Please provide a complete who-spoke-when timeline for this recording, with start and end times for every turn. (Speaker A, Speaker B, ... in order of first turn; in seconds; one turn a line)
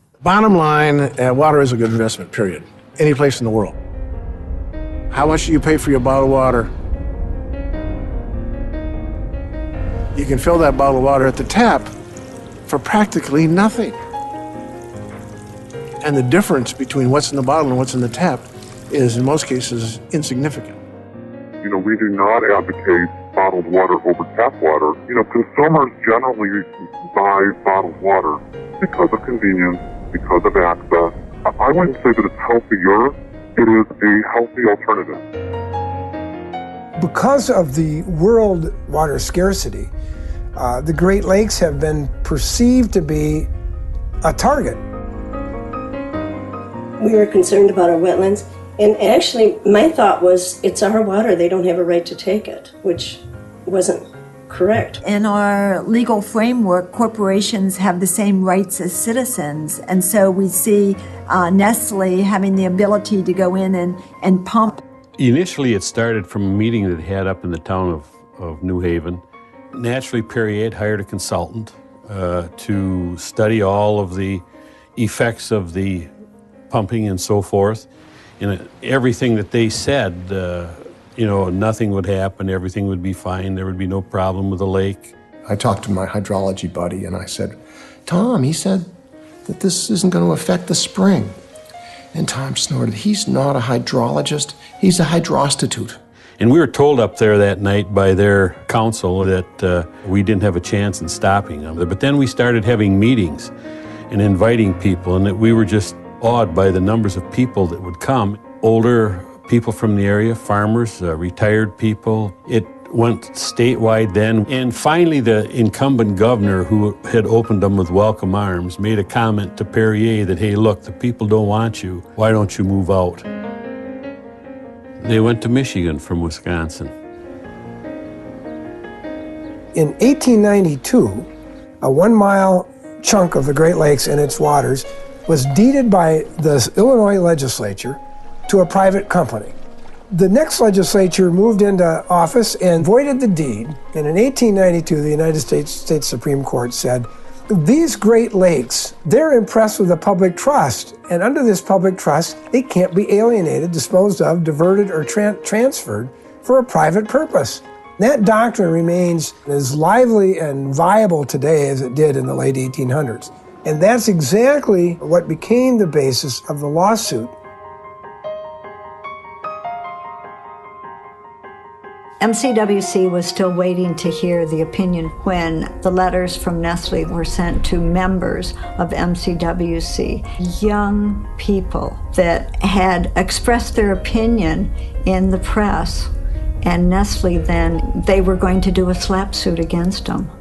Speaker A: 0.2-3.8
Speaker A: 5.1-6.7
Speaker A: 10.2-11.9
Speaker A: 12.7-14.0
Speaker A: 16.0-20.8
Speaker B: 21.6-35.2
Speaker C: 37.0-39.9
Speaker C: 40.6-43.5
Speaker C: 44.2-44.8
Speaker D: 47.0-55.0
Speaker E: 55.0-64.8
Speaker F: 65.2-74.4
Speaker F: 75.0-76.1
Speaker F: 76.7-77.9
Speaker F: 78.4-85.2
Speaker G: 85.5-88.9
Speaker G: 89.5-91.4
Speaker G: 92.1-96.0
Speaker F: 96.4-103.5
Speaker F: 104.1-123.3
Speaker F: 125.0-126.9
Speaker C: 129.8-131.3
Speaker C: 131.8-139.6
Speaker C: 140.1-167.3
Speaker H: 172.2-186.1
Speaker H: 186.6-190.3